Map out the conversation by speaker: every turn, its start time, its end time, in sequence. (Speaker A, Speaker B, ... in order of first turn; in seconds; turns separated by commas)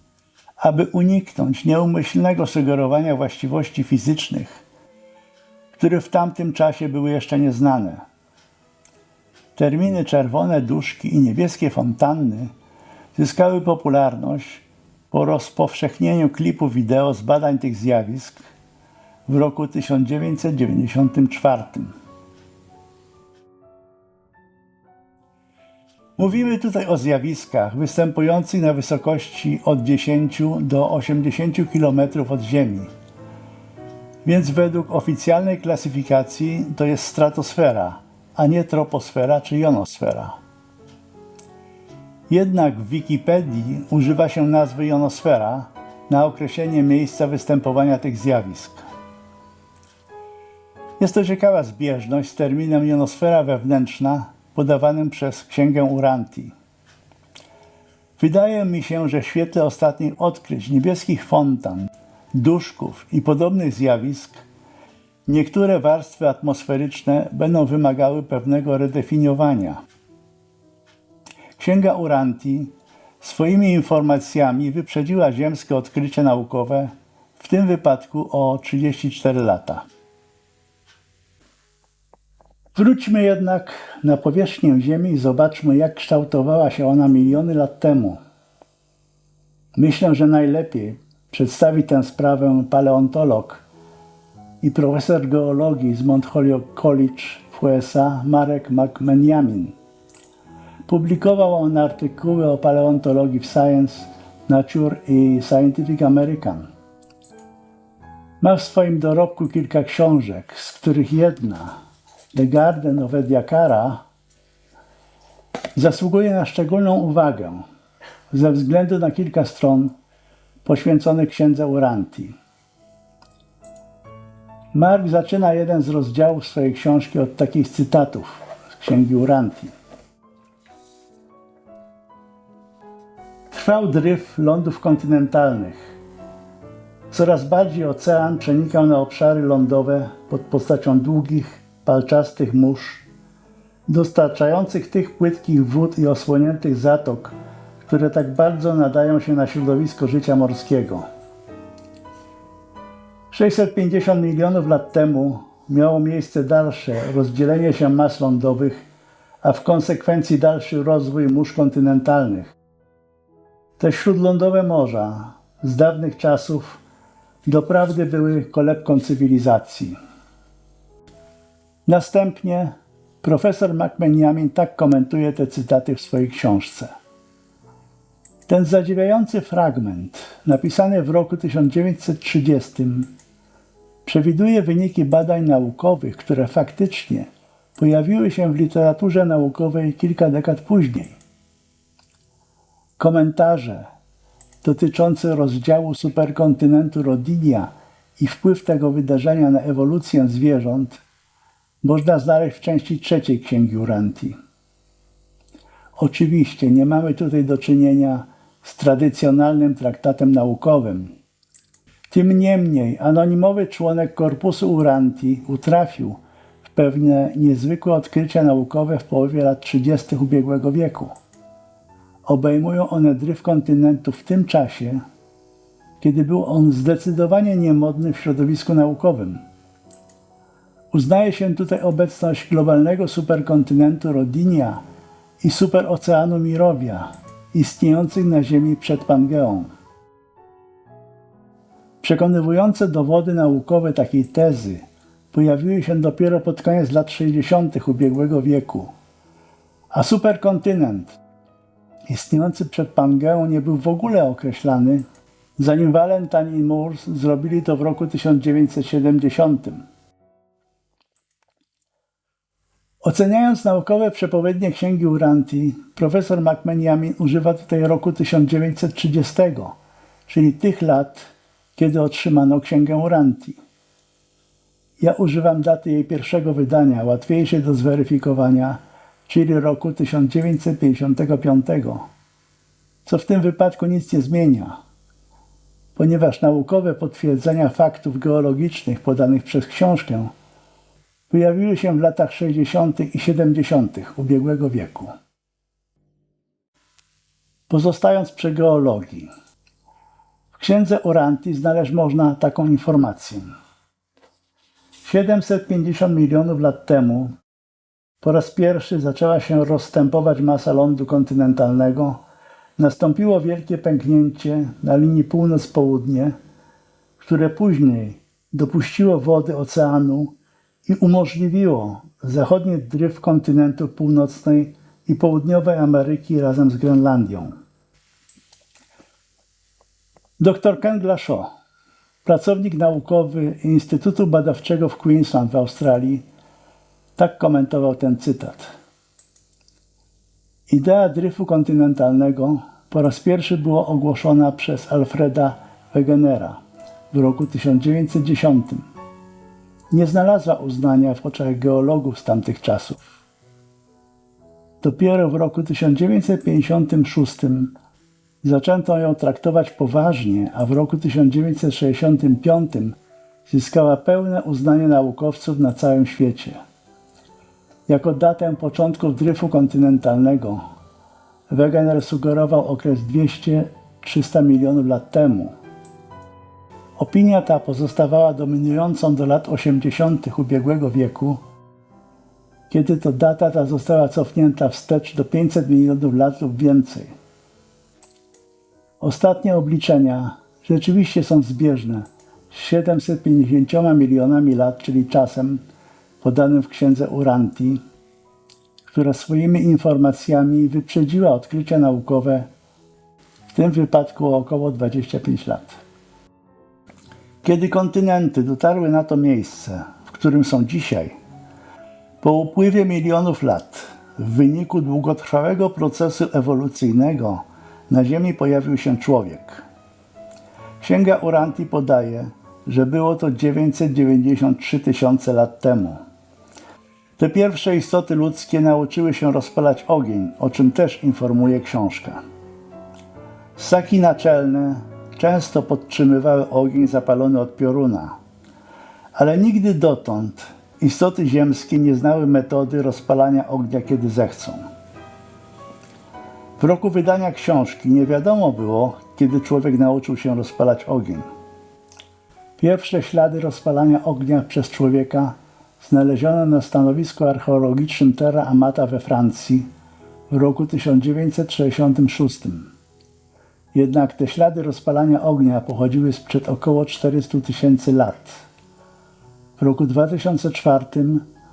Speaker A: 0.6-4.6, Speaker A: 5.7-8.0, Speaker A: 9.6-12.5, Speaker A: 13.1-18.4, Speaker A: 19.3-21.9, Speaker A: 26.2-32.9, Speaker A: 34.2-40.4, Speaker A: 42.3-48.8, Speaker A: 51.0-56.5, Speaker A: 58.2-64.4, Speaker A: 65.2-69.8, Speaker A: 71.6-79.8, Speaker A: 82.7-88.2, Speaker A: 89.8-93.6, Speaker A: 94.6-99.8, Speaker A: 100.9-106.7, Speaker A: 108.4-111.8, Speaker A: 112.3-114.0, Speaker A: 115.8-117.6, Speaker A: 118.3-119.9, Speaker A: 120.6-122.3, Speaker A: 124.7-129.7, Speaker A: 133.5-135.9, Speaker A: 137.1-143.1, Speaker A: 143.9-151.1, Speaker A: 153.3-158.8, Speaker A: 159.4-162.5, Speaker A: 163.8-166.8, Speaker A: 167.4-170.0, Speaker A: 171.8-176.9, Speaker A: 178.5-183.1, Speaker A: 184.0-191.2, Speaker A: 193.0-193.9, Speaker A: 194.6-201.0, Speaker A: 201.8-204.3, Speaker A: 206.0-211.2, Speaker A: 212.1-221.2, Speaker A: 222.3-225.0, Speaker A: 226.0-229.4, Speaker A: 230.9-234.8, Speaker A: 235.4-239.7, Speaker A: 242.0-248.9, Speaker A: 249.9-251.2, Speaker A: 252.1-255.0, Speaker A: 255.6-259.8, Speaker A: 263.0-273.6, Speaker A: 275.0-282.1, Speaker A: 283.0-284.8, Speaker A: 285.9-290.3, Speaker A: 291.3-295.1, Speaker A: 297.7-299.3, Speaker A: 300.5-303.5, Speaker A: 305.0-307.3, Speaker A: 308.2-312.2, Speaker A: 312.8-316.3, Speaker A: 317.2-320.3, Speaker A: 320.8-327.5, Speaker A: 330.4-331.5, Speaker A: 332.2-336.2, Speaker A: 337.1-338.7, Speaker A: 340.7-346.6, Speaker A: 347.1-348.9, Speaker A: 349.9-353.1, Speaker A: 354.8-357.7, Speaker A: 358.4-362.9, Speaker A: 363.5-366.6, Speaker A: 367.9-370.6, Speaker A: 371.5-375.5, Speaker A: 377.0-381.4, Speaker A: 382.7-387.1, Speaker A: 389.0-395.6, Speaker A: 396.2-397.8, Speaker A: 398.9-402.5, Speaker A: 403.5-405.8, Speaker A: 407.4-411.1, Speaker A: 412.2-419.6, Speaker A: 420.8-426.0, Speaker A: 427.2-432.2, Speaker A: 433.6-438.1, Speaker A: 439.1-444.6, Speaker A: 446.6-451.2, Speaker A: 452.6-459.7, Speaker A: 460.3-462.7, Speaker A: 463.7-468.4, Speaker A: 469.6-471.2